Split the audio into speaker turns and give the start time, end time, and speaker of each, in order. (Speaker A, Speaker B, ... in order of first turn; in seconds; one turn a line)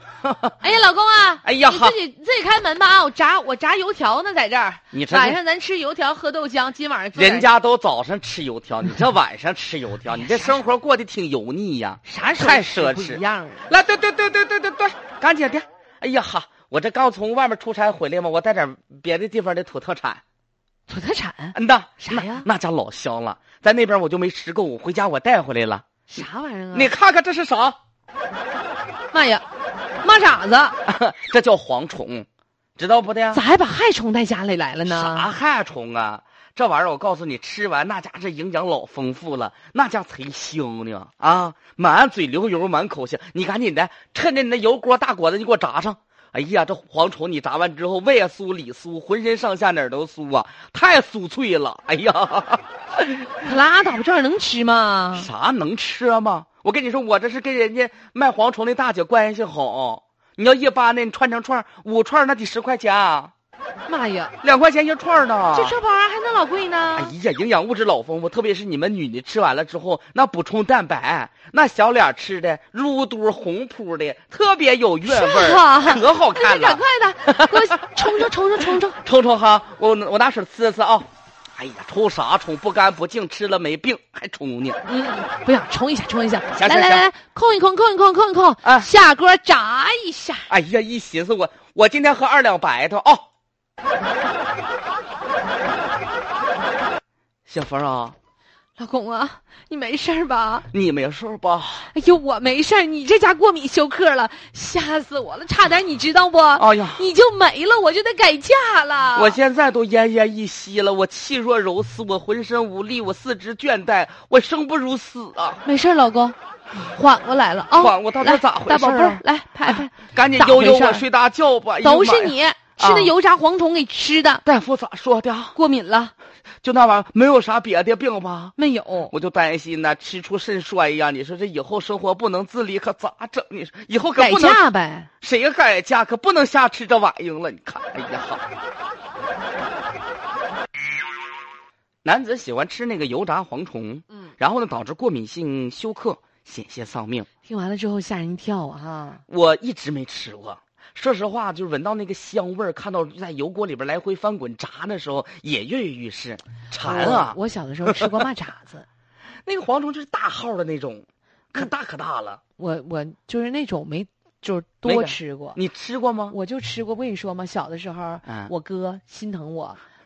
Speaker A: 0.2-0.6
Speaker B: 0.6-7.5
Speaker A: 1.4-2.0
Speaker A: 4.9-5.4
Speaker A: 7.2-20.2
Speaker B: 10.1-10.6
Speaker B: 12.0-13.7
Speaker B: 20.9-22.4
Speaker A: 21.5-25.9
Speaker B: 26.1-26.9
Speaker A: 26.7-27.8
Speaker B: 29.1-29.4
Speaker B: 30.0-30.8
Speaker A: 30.8-33.4
Speaker B: 33.3-35.3
Speaker A: 34.9-53.2
Speaker B: 53.3-55.3
Speaker A: 55.1-63.3
Speaker B: 63.9-64.3
Speaker A: 64.4-65.8
Speaker B: 65.5-67.1
Speaker A: 67.0-78.2
Speaker B: 75.0-79.0
Speaker A: 79.0-84.8
Speaker B: 84.8-90.5
Speaker A: 86.5-87.0
Speaker A: 88.6-88.9
Speaker A: 90.5-93.2
Speaker A: 97.5-98.2
Speaker B: 98.8-100.7
Speaker A: 100.7-101.9
Speaker B: 101.9-109.4
Speaker A: 106.6-107.1
Speaker A: 109.1-115.6
Speaker B: 115.6-121.0
Speaker A: 117.7-123.1
Speaker B: 121.8-124.4
Speaker A: 124.4-125.6
Speaker B: 125.5-126.1
Speaker A: 126.6-128.5
Speaker B: 128.6-129.1
Speaker A: 129.1-134.6
Speaker B: 134.2-135.1
Speaker A: 135.2-138.4
Speaker A: 142.1-147.3
Speaker B: 147.4-149.2
Speaker A: 149.3-158.1
Speaker B: 156.8-158.9
Speaker A: 159.4-162.4
Speaker B: 162.6-165.6
Speaker A: 164.8-166.4
Speaker B: 166.3-169.8
Speaker A: 168.3-168.5